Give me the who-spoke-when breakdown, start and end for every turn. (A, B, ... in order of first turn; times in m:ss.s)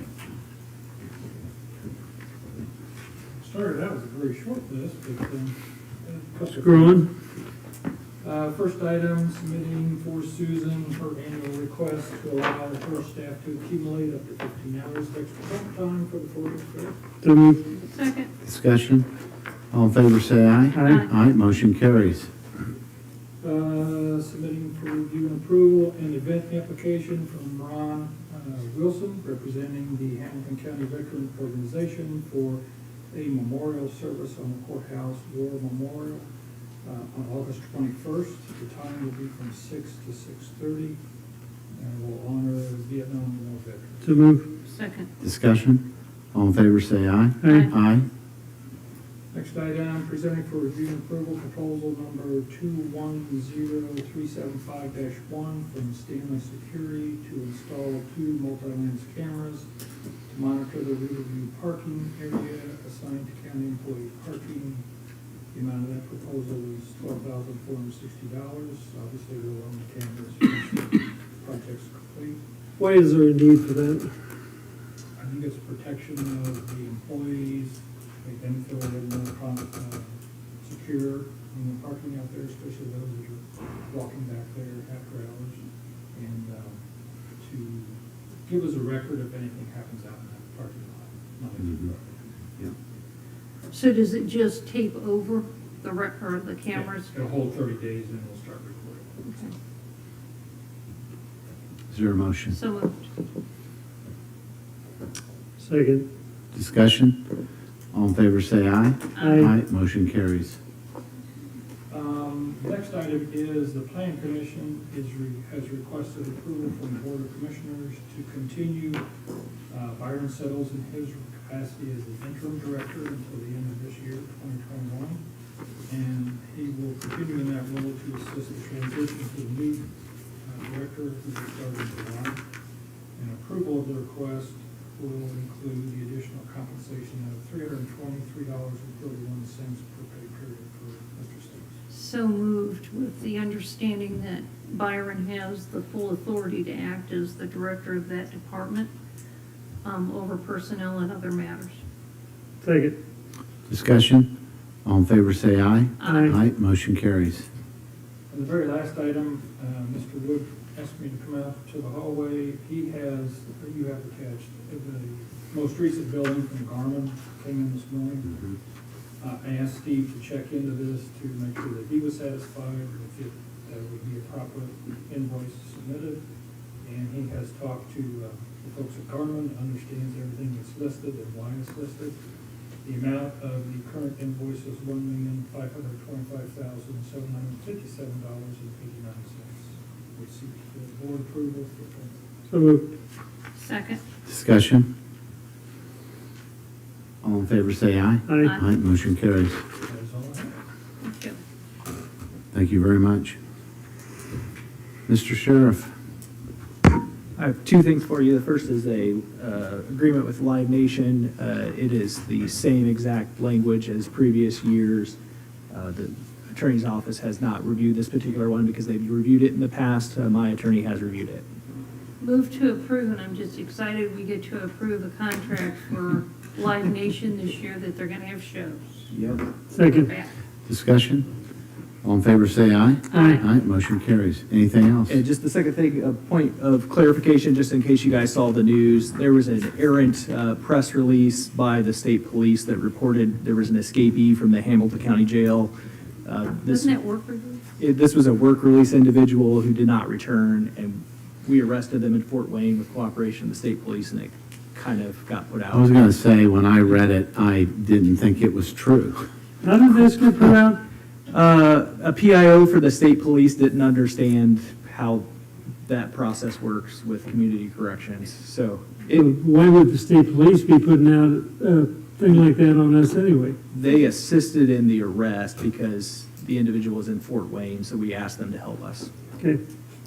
0:03.4-0:07.1 A
0:06.4-0:07.1 B
0:08.2-0:17.0 A
0:17.2-0:17.6 B
0:17.7-0:18.3 C
0:18.4-0:19.1 D
0:19.7-0:22.3 D
0:20.7-0:21.0 B
0:23.4-0:36.2 A
0:36.8-0:41.0 A
0:41.7-0:44.1 A
0:44.0-0:44.5 B
0:44.6-0:45.1 C
0:45.2-0:45.8 D
0:46.3-0:48.1 D
0:47.4-0:47.7 B
0:49.3-0:59.7 A
1:00.3-1:04.8 A
1:05.5-1:12.4 A
1:12.8-1:14.1 B
1:15.2-1:26.8 A
1:27.4-1:32.2 A
1:33.7-1:37.1 C
1:36.7-1:39.1 A
1:39.2-1:39.5 C
1:41.9-1:42.6 D
1:42.5-1:43.0 C
1:45.6-1:46.1 B
1:46.5-1:47.2 D
1:47.9-1:50.6 D
1:49.2-1:49.5 B
1:51.9-1:59.0 A
1:59.7-2:05.2 A
2:05.9-2:09.9 A
2:10.4-2:12.4 A
2:13.2-2:21.8 A
2:21.9-2:28.9 C
2:29.8-2:31.8 C
2:32.6-2:33.0 B
2:33.7-2:34.3 D
2:34.8-2:37.5 D
2:36.0-2:36.4 C
2:36.0-2:36.4 B
2:38.3-2:48.4 A
2:49.2-2:56.2 A
2:56.8-3:02.2 A
3:02.8-3:12.2 A
3:12.5-3:12.8 B
3:13.6-3:14.0 C
3:14.3-3:14.9 D
3:17.2-3:19.6 D
3:18.3-3:18.6 B
3:19.8-3:20.6 A
3:21.0-3:21.4 C
3:22.5-3:23.4 D
3:25.1-3:25.9 D
3:27.4-3:35.2 E
3:35.7-3:41.4 E
3:42.2-3:49.1 C
3:49.7-3:50.1 B
3:50.0-3:50.3 C
3:50.7-3:51.3 D
3:52.0-3:55.2 D
3:53.1-3:53.4 C
3:55.1-4:05.7 E
4:06.2-4:07.0 E
4:06.6-4:07.6 C
4:07.8-4:15.9 E
4:15.7-4:19.3 D
4:19.6-4:20.8 B
4:21.3-4:25.3 E
4:25.8-4:29.3 E
4:29.1-4:33.6 B
4:33.7-4:39.1 E